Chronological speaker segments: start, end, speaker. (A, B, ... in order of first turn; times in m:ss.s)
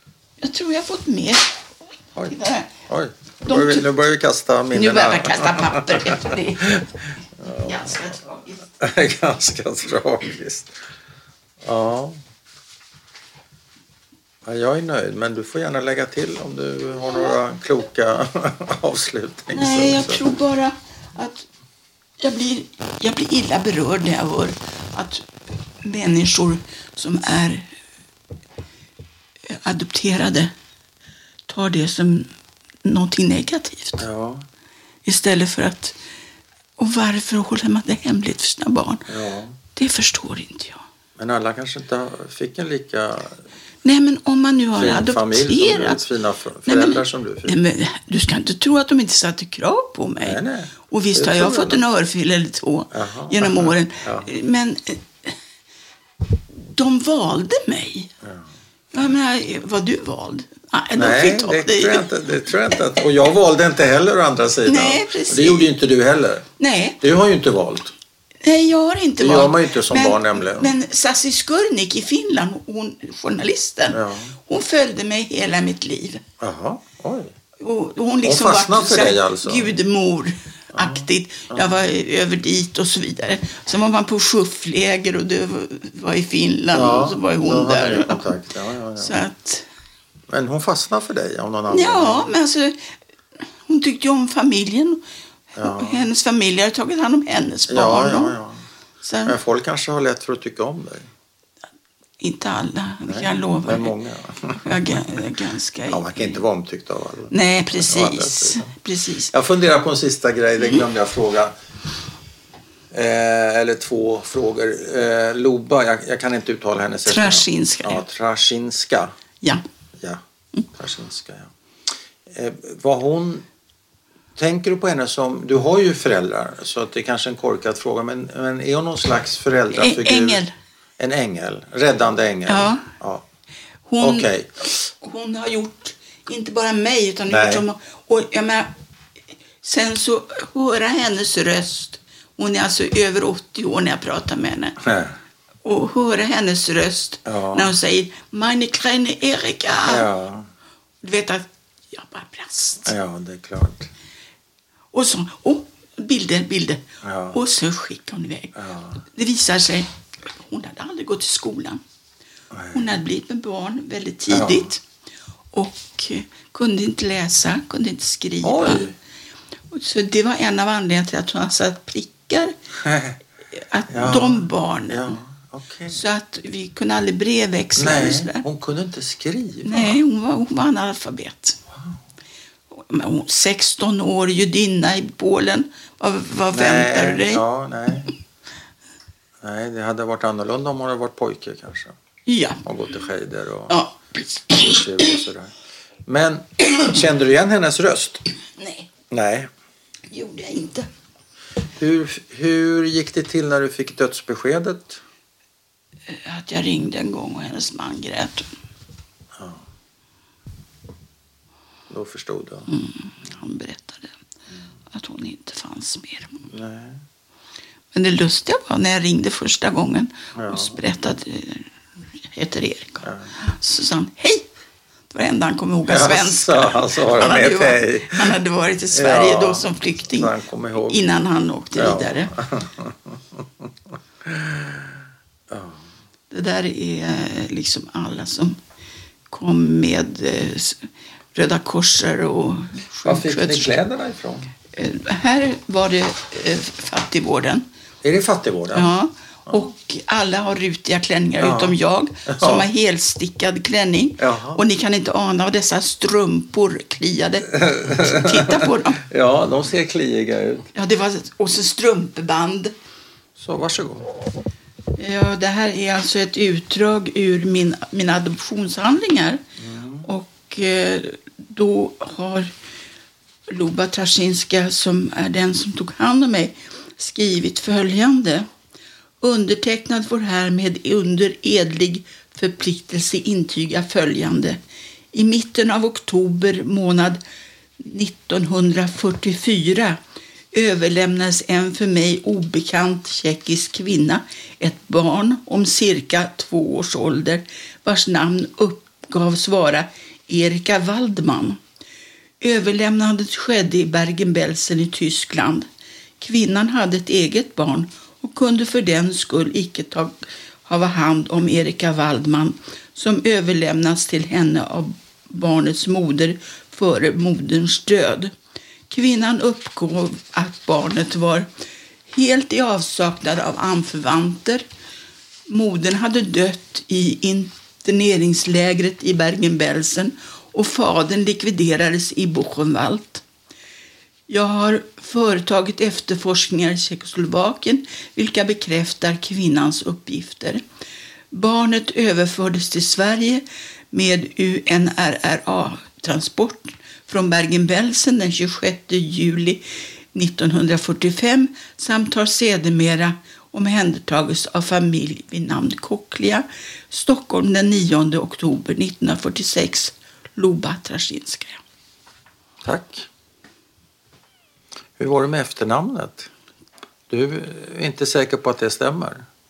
0:00.4-0:01.6 A
0:02.2-0:07.9 B
0:02.3-0:02.8 A
0:03.4-0:03.9 A
0:04.7-0:06.8 A
0:07.5-0:08.6 A
0:08.7-0:10.8 B
0:11.6-0:12.2 B
0:14.4-0:20.3 B
0:19.5-0:21.5 A
0:22.2-0:25.3 A
0:25.8-0:27.7 A
0:29.5-0:30.5 A
0:31.5-0:32.3 A
0:32.8-0:34.0 A
0:34.0-0:34.5 B
0:35.0-0:36.0 A
0:36.8-0:39.1 A
0:39.1-0:39.6 B
0:39.7-0:40.8 A
0:41.2-0:43.4 B
0:43.8-0:46.0 A
0:44.8-0:47.6 B
0:46.7-0:55.3 A
0:50.2-0:51.8 B
0:52.9-0:54.3 B
0:56.5-0:58.1 A
0:58.2-0:58.5 B
0:58.9-1:02.1 A
1:01.0-1:06.5 B
1:04.7-1:05.7 A
1:06.6-1:07.0 A
1:07.0-1:07.9 B
1:08.4-1:16.2 A
1:09.2-1:10.8 B
1:13.9-1:14.4 B
1:16.4-1:17.3 B
1:17.6-1:28.3 A
1:18.2-1:19.7 B
1:20.7-1:21.7 B
1:26.7-1:29.2 B
1:29.0-1:29.7 A
1:30.3-1:32.4 B
1:31.7-1:32.8 A
1:33.7-1:35.0 A
1:35.6-1:38.4 A
1:35.6-1:36.1 B
1:37.7-1:38.6 B
1:39.0-1:39.4 A
1:39.3-1:41.1 B
1:42.2-1:44.0 A
1:43.0-1:45.3 B
1:44.5-1:46.4 A
1:45.9-1:48.7 B
1:47.3-1:49.3 A
1:49.3-1:51.5 B
1:50.6-1:50.8 A
1:52.9-1:59.1 B
1:57.1-1:58.0 A
2:00.0-2:01.5 B
2:02.3-2:03.5 B
2:04.4-2:10.4 B
2:09.7-2:10.5 A
2:11.0-2:13.2 B
2:12.5-2:12.9 A
2:13.9-2:18.7 A
2:14.0-2:14.7 B
2:17.3-2:17.6 B
2:19.6-2:24.8 A
2:24.8-2:25.2 B
2:25.6-2:30.1 A
2:27.3-2:27.7 B
2:29.9-2:30.5 B
2:31.0-2:33.0 A
2:32.8-2:33.9 B
2:34.9-2:41.8 A
2:37.0-2:37.4 B
2:38.6-2:39.0 B
2:42.5-2:42.9 B
2:42.7-2:44.8 A
2:44.3-2:44.7 B
2:45.5-2:48.9 A
2:48.4-2:49.0 B
2:49.7-2:52.6 A
2:52.8-2:53.2 B
2:53.6-2:55.2 A
2:53.9-2:56.0 B
2:55.9-2:58.5 A
2:57.8-3:00.0 B
2:59.6-3:01.6 A
3:02.7-3:07.4 A
3:06.5-3:08.1 B
3:09.4-3:11.9 B
3:12.3-3:12.6 A
3:12.6-3:13.8 B
3:13.7-3:15.2 A
3:14.5-3:15.5 B
3:16.1-3:18.2 B
3:18.6-3:18.9 A
3:19.1-3:19.5 B
3:20.1-3:20.9 A
3:21.8-3:25.0 B
3:26.1-3:28.5 A
3:29.4-3:29.6 B
3:31.9-3:32.7 B
3:32.7-3:34.1 A
3:34.9-3:36.5 A
3:36.5-3:37.0 B
3:37.9-3:41.7 A
3:40.4-3:40.8 B
3:42.3-3:44.4 A
3:43.0-3:43.3 B
3:45.1-3:52.3 A
3:45.9-3:48.4 B
3:48.9-3:51.0 B
3:51.8-3:53.7 B
3:54.2-3:55.0 B
3:55.5-3:55.9 B
3:56.3-3:58.6 A
3:59.3-4:03.8 A
4:03.0-4:04.5 B
4:04.8-4:07.7 A
4:08.0-4:08.9 B
4:08.7-4:19.0 A
4:11.4-4:11.8 B
4:12.3-4:12.7 B
4:14.2-4:14.6 B
4:17.5-4:20.7 B
4:20.7-4:22.7 A
4:23.4-4:24.1 B
4:25.0-4:29.4 A
4:29.6-4:30.1 B
4:30.0-4:32.5 A
4:33.5-4:38.5 A
4:39.2-4:44.6 A
4:45.1-4:47.2 A
4:47.8-4:50.0 A
4:50.5-5:01.6 A
5:02.4-5:05.7 A
5:06.2-5:18.3 A
5:18.9-5:21.5 A
5:22.1-5:24.6 A
5:25.5-5:33.2 A
5:34.3-5:40.6 A
5:41.3-6:01.6 A
6:02.6-6:03.1 B
6:05.0-6:06.3 B
6:07.1-6:09.3 B